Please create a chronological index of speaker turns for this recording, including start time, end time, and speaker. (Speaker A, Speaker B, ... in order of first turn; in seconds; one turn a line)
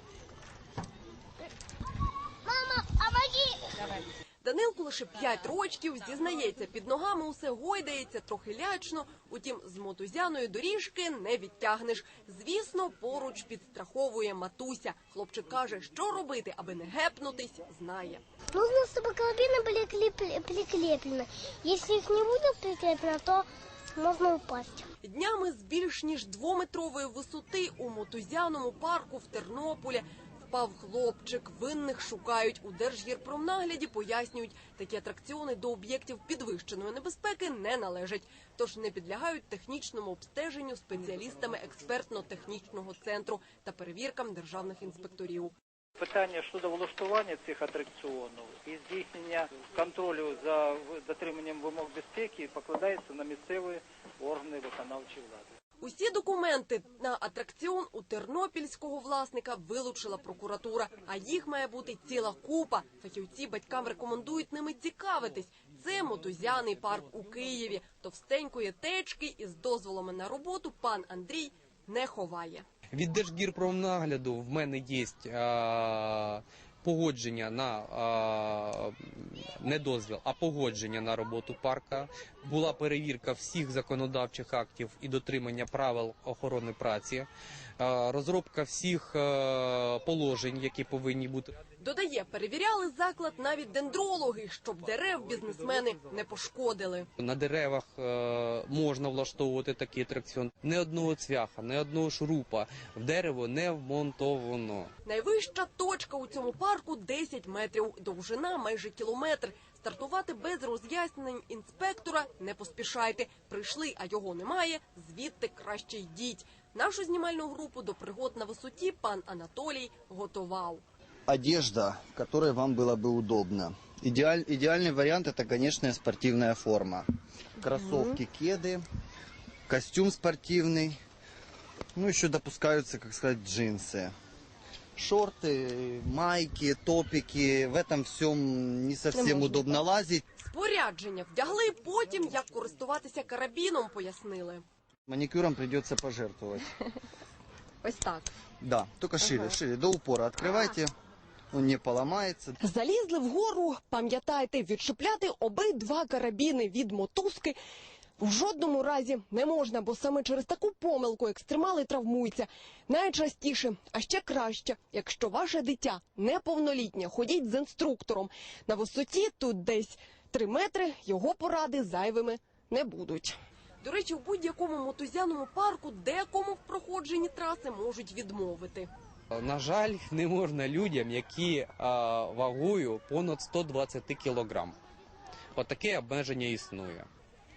Speaker A: 2.5-3.6
Speaker B: 4.4-18.2
Speaker A: 18.5-24.9
Speaker B: 25.0-45.5
Speaker C: 46.0-55.5
Speaker B: 55.8-72.7
Speaker D: 72.9-87.3
Speaker D: 87.8-91.6
Speaker B: 91.8-97.1
Speaker D: 97.2-104.9
Speaker B: 105.0-120.8
Speaker E: 121.3-127.1
Speaker E: 127.6-128.8
Speaker B: 127.7-128.2
Speaker E: 129.7-131.0
Speaker E: 132.0-134.1
Speaker E: 135.0-140.2
Speaker B: 139.2-139.8
Speaker B: 140.4-144.6
Speaker E: 145.1-146.7
Speaker B: 147.8-148.3
Speaker E: 148.6-150.9
Speaker E: 151.5-152.6
Speaker B: 152.6-157.6
Speaker B: 158.2-178.9
Speaker D: 179.3-184.8
Speaker D: 185.6-187.1